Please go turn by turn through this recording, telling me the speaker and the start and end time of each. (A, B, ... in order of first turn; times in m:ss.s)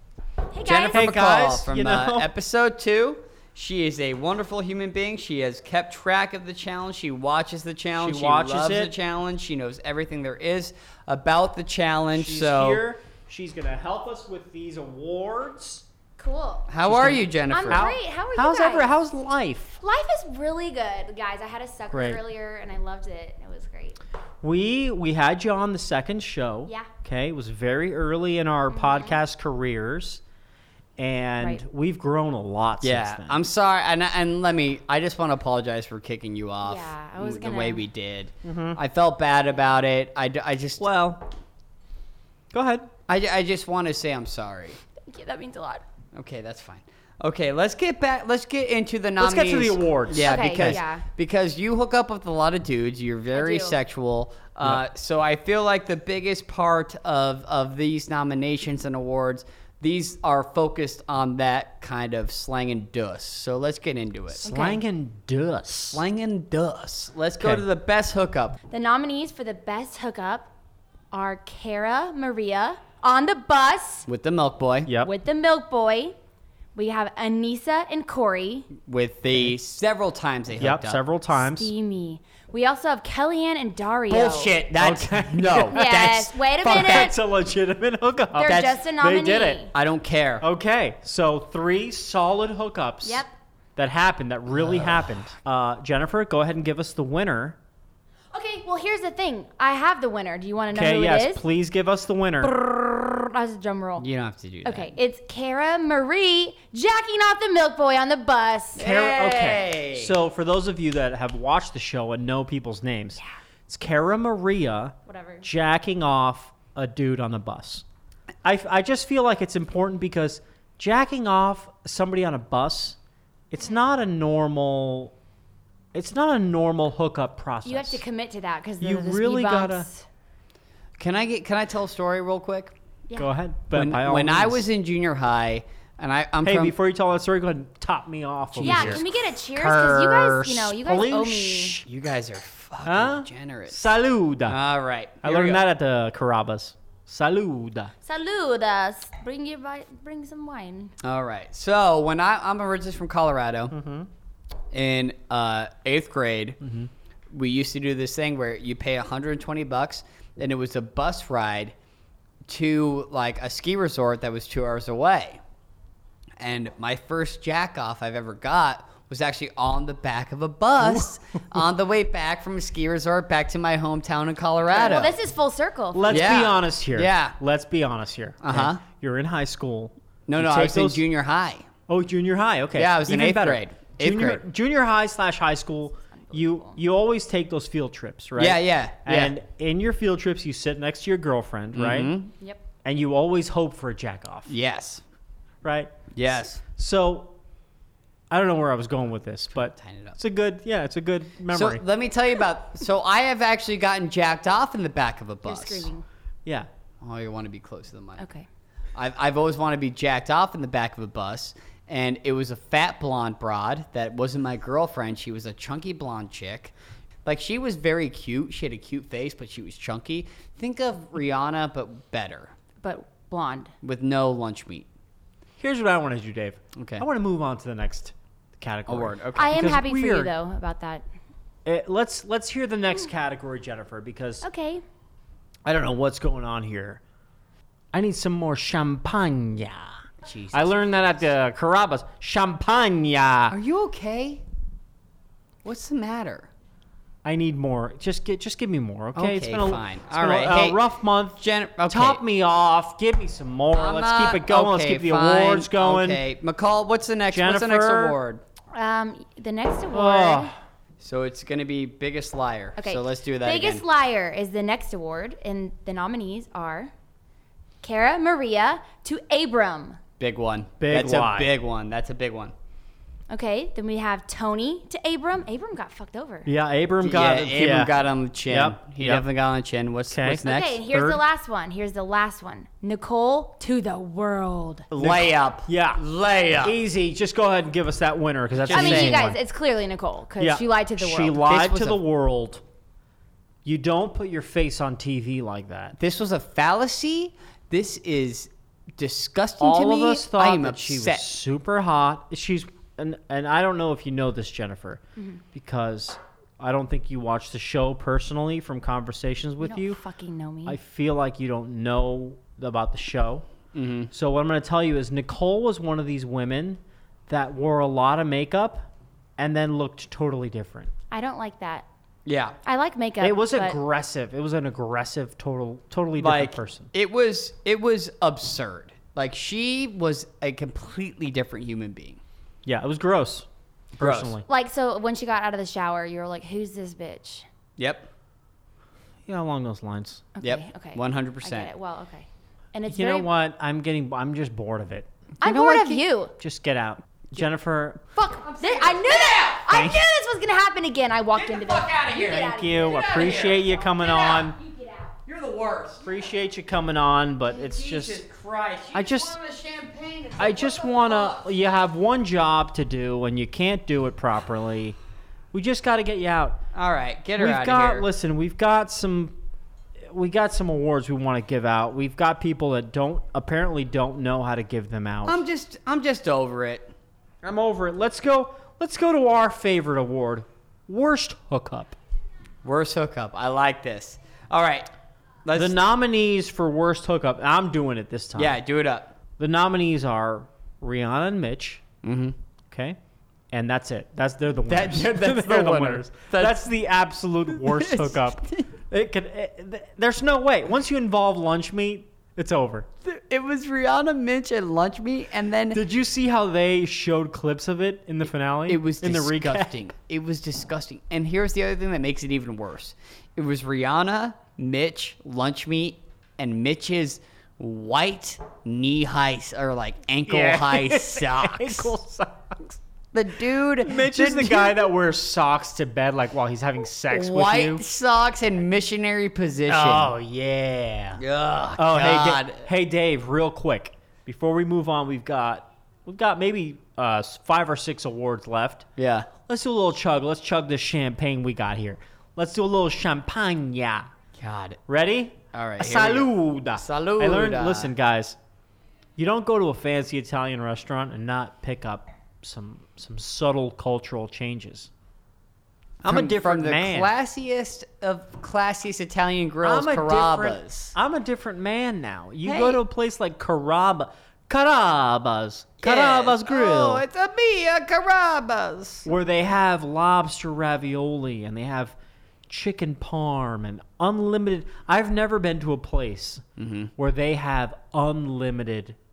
0:00.5-0:01.1 A
0:00.6-0:12.8 B
0:00.8-0:02.3 C
0:08.0-0:08.9 C
0:12.1-0:15.8 C
0:16.2-0:16.7 A
0:16.7-0:17.9 B
0:16.9-0:19.8 C
0:17.5-0:18.9 A
0:19.8-0:24.0 A
0:21.9-0:22.2 C
0:24.4-0:30.2 C
0:28.7-0:29.2 A
0:31.0-0:33.4 C
0:32.8-0:40.9 B
0:36.6-0:37.8 A
0:38.4-0:38.8 C
0:40.8-0:41.2 C
0:42.5-0:42.9 C
0:43.1-0:44.8 B
0:45.0-0:45.8 A
0:46.1-1:04.4 B
0:49.2-0:50.8 C
0:50.2-0:51.0 A
0:53.3-0:53.8 A
1:04.4-1:04.8 A
1:04.4-1:06.0 C
1:05.9-1:08.6 B
1:07.4-1:07.6 C
1:08.7-1:10.5 A
1:11.1-1:14.1 A
1:14.1-1:14.9 B
1:14.9-1:15.1 C
1:15.0-1:16.2 A
1:16.7-1:18.7 A
1:18.8-1:21.0 B
1:20.6-1:21.7 C
1:21.4-1:24.5 A
1:24.1-1:27.1 B
1:24.8-1:26.0 C
1:25.7-1:27.2 A
1:26.6-1:29.7 C
1:28.3-1:29.7 A
1:28.5-1:28.7 B
1:29.7-1:30.4 B
1:30.4-1:33.2 C
1:33.0-1:33.3 A
1:33.8-1:37.6 C
1:34.6-1:35.0 B
1:38.3-1:41.4 A
1:40.7-1:42.5 C
1:42.4-1:44.0 A
1:44.0-1:44.9 B
1:44.6-1:48.8 A
1:48.8-1:50.2 B
1:48.8-1:57.8 C
1:55.1-1:55.4 A
1:58.4-2:03.0 C
2:03.5-2:05.1 C
2:05.9-2:08.0 C
2:07.6-2:10.0 A
2:08.8-2:09.9 C
2:11.0-2:12.7 B
2:13.2-2:14.6 C
2:13.7-2:16.7 B
2:16.4-2:19.0 C
2:18.5-2:20.3 B
2:18.6-2:21.8 A
2:19.7-2:21.8 C
2:21.8-2:23.8 B
2:22.8-2:24.6 C
2:24.5-2:25.6 B
2:25.2-2:27.9 C
2:28.0-2:30.9 A
2:31.0-2:33.8 B
2:33.7-2:34.1 C
2:34.7-2:36.6 B
2:36.6-2:36.9 C
2:37.3-2:41.7 B
2:42.5-2:45.4 B
2:46.4-2:55.1 B
2:54.7-2:56.4 A
2:55.9-3:01.0 C
2:56.1-2:57.4 B
2:58.4-2:58.8 B
3:00.3-3:01.6 B
3:01.9-3:12.1 C
3:02.7-3:04.4 B
3:06.0-3:06.8 A
3:08.4-3:09.4 B
3:11.7-3:12.3 B
3:12.8-3:14.5 C
3:14.5-3:15.0 B
3:15.6-3:15.9 C
3:16.1-3:16.6 B
3:16.6-3:17.3 C
3:18.3-3:21.8 C
3:19.5-3:20.2 B
3:21.5-3:25.9 B
3:25.4-3:26.0 A
3:27.0-3:28.2 B
3:28.2-3:28.5 A
3:28.9-3:36.7 B
3:37.2-3:42.5 B
3:42.8-3:43.7 A
3:43.8-3:44.9 B
3:45.6-3:50.3 C
3:46.7-3:47.0 B
3:48.9-3:49.6 B
3:49.3-3:51.0 A
3:51.6-3:54.4 C
3:54.4-3:54.8 A
3:55.6-3:57.0 C
3:57.9-4:00.0 C
4:00.2-4:00.9 B
4:00.5-4:03.6 C
4:03.5-4:04.4 B
4:05.6-4:06.5 B
4:07.2-4:16.2 C
4:09.1-4:10.8 B
4:11.4-4:12.2 B
4:13.7-4:18.4 B
4:17.3-4:18.2 C
4:18.7-4:20.5 A
4:19.9-4:20.6 C
4:21.0-4:23.8 B
4:22.8-4:26.9 A
4:27.8-4:30.0 A
4:30.2-4:32.5 B
4:30.8-4:31.5 C
4:33.3-4:36.5 A
4:36.4-4:39.2 C
4:37.0-4:40.8 B
4:40.1-4:41.2 C
4:40.4-4:44.9 A
4:44.9-4:46.0 C
4:44.9-4:46.8 B
4:46.6-4:49.4 C
4:48.6-4:49.2 B
4:48.7-4:51.4 A
4:50.4-4:52.6 C
4:51.4-4:52.0 B
4:53.6-4:56.0 C
4:56.0-5:01.3 B
4:59.6-5:05.0 C
5:05.5-5:10.0 C
5:09.6-5:10.8 A
5:10.6-5:13.4 C
5:13.7-5:14.1 B
5:14.1-5:20.9 C
5:21.1-5:21.8 A
5:22.2-5:22.6 B
5:22.6-5:23.8 A
5:23.2-5:26.9 C
5:26.2-5:32.2 B
5:32.6-5:33.5 C
5:34.0-5:34.4 C
5:34.0-5:34.3 B
5:34.5-5:37.4 A
5:37.8-5:38.1 B
5:39.3-5:40.2 C
5:40.3-5:43.3 A
5:40.4-5:41.7 B
5:42.9-5:45.1 C
5:45.4-5:46.3 A
5:45.4-5:46.0 B
5:46.4-5:48.0 C
5:48.2-5:55.1 A
5:48.2-5:49.7 B
5:49.7-5:50.0 C
5:51.3-5:54.4 B
5:52.1-5:54.6 C
5:55.2-5:56.1 B
5:56.0-5:58.2 C
5:57.5-6:01.5 B
5:58.9-5:59.4 C
6:00.4-6:05.0 C
6:05.5-6:06.6 C
6:06.7-6:08.1 B
6:07.4-6:09.4 C
6:10.0-6:15.4 C
6:15.2-6:16.9 B
6:17.4-6:22.0 C
6:22.6-6:24.9 B
6:25.4-6:25.8 B
6:25.5-6:28.6 C
6:28.4-6:29.1 B
6:29.4-6:31.8 C
6:32.0-6:32.4 B
6:32.7-6:33.0 C
6:33.5-6:42.9 C
6:34.7-6:36.6 B
6:37.5-6:38.6 B
6:43.0-6:45.8 B
6:45.7-6:49.8 C
6:48.7-7:01.9 B
7:00.2-7:02.8 C
7:03.1-7:04.8 B
7:03.8-7:07.8 C
7:07.1-7:10.1 B
7:09.7-7:11.2 C
7:11.2-7:12.6 B
7:11.8-7:18.8 C
7:19.0-7:19.3 B
7:19.5-7:24.1 C
7:24.4-7:24.8 B
7:24.9-7:28.4 C
7:25.5-7:27.9 B
7:29.2-7:34.9 C
7:36.0-7:41.0 B
7:36.0-7:37.1 C
7:39.6-7:47.0 C
7:42.4-7:42.8 B
7:45.8-7:49.1 B
7:49.0-7:51.9 C
7:52.5-7:56.4 C
7:56.6-7:56.9 B
7:57.0-7:59.0 C